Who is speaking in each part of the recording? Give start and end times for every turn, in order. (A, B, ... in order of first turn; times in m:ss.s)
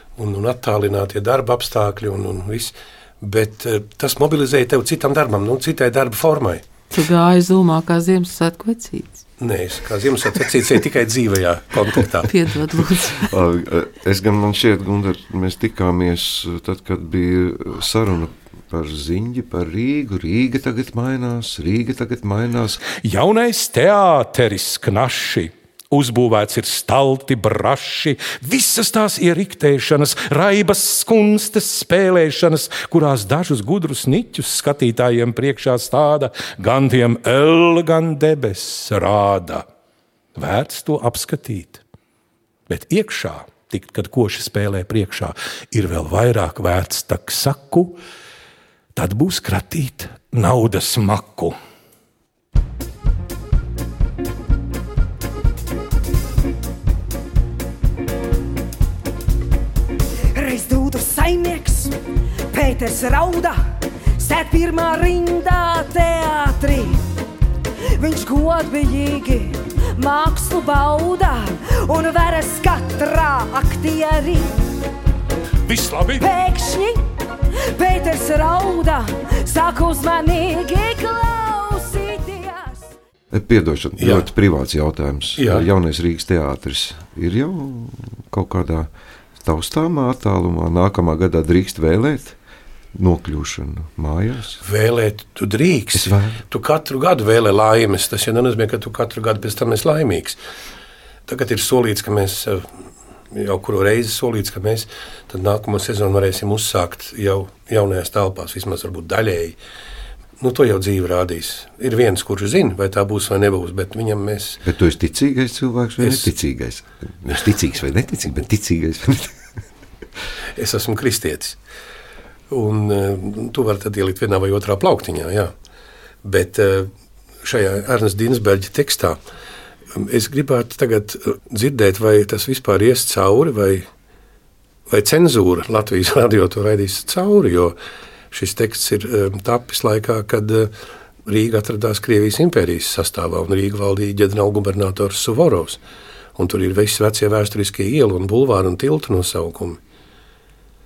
0:00.2-0:06.6 A
0:06.9-0:09.2 B
0:09.4-0:12.3 A
0:12.3-0:13.3 B
0:13.2-0:22.8 C
0:22.9-0:39.6 D
0:40.4-0:41.8 D
0:42.7-0:48.0 D
0:48.9-0:51.6 D
1:00.3-1:01.9 E
1:02.5-1:03.6 E
1:04.2-1:07.0 E
1:08.0-1:14.5 E
1:15.7-1:16.3 D
1:16.2-1:17.0 E
1:17.8-1:22.9 E
1:23.3-1:28.9 C
1:24.0-1:24.3 A
1:25.4-1:25.7 A
1:29.4-1:32.4 C
1:32.9-1:34.6 C
1:34.6-1:40.4 A
1:35.9-1:36.4 C
1:41.3-1:42.7 A
1:43.3-1:49.6 A
1:50.4-1:54.6 A
1:54.6-1:59.4 C
1:56.0-1:56.3 A
2:00.6-2:01.6 A
2:02.5-2:05.5 A
2:06.2-2:06.9 A
2:07.4-2:09.2 A
2:10.0-2:13.8 A
2:14.9-2:17.8 A
2:18.3-2:20.7 A
2:21.2-2:25.8 A
2:26.4-2:29.8 A